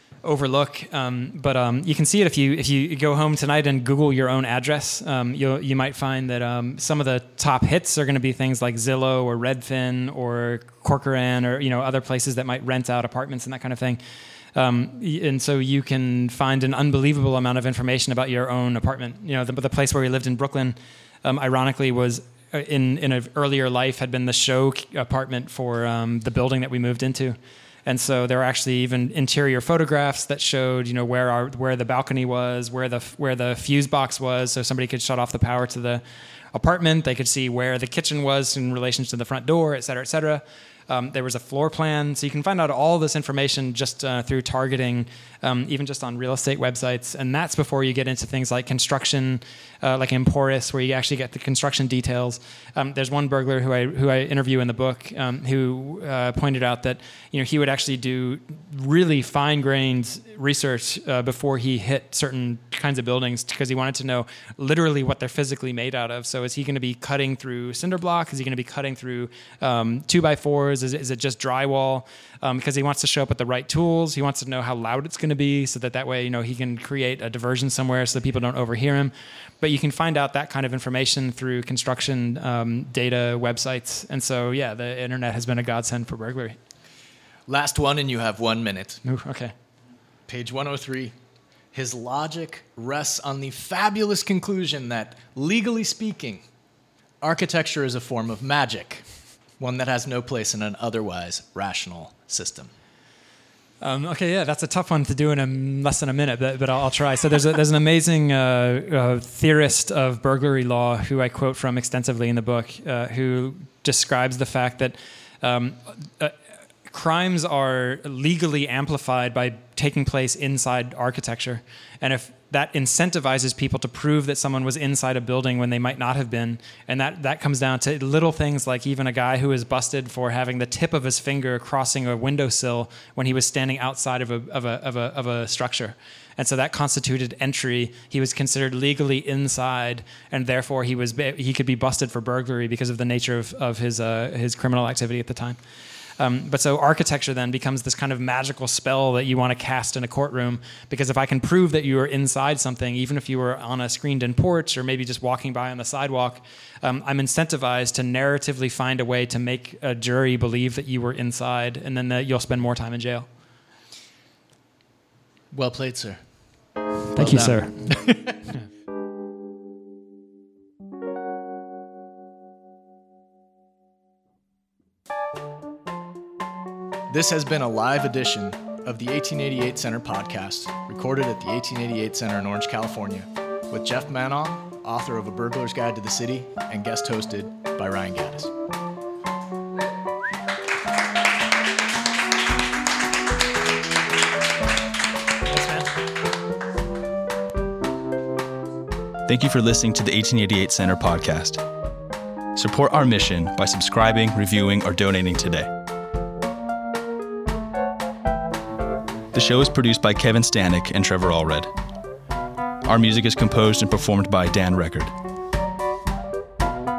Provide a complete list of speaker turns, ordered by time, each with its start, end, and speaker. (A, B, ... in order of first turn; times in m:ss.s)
0:00.2-0:14.0 A
0:14.5-1:26.6 A
1:27.5-1:29.0 B
1:29.0-1:29.5 A
1:30.3-1:31.1 B
1:31.7-1:36.4 B
1:37.2-1:39.0 B
1:39.6-1:42.7 B
1:43.8-2:25.6 A
2:26.2-2:43.3 A
2:45.5-2:46.3 B
2:47.1-2:48.0 A
2:47.1-2:48.5 B
2:57.1-3:08.5 B
3:15.5-3:15.9 A
3:19.3-3:21.6 C
3:22.6-3:25.7 C
3:29.3-3:31.7 C
3:32.8-3:35.1 C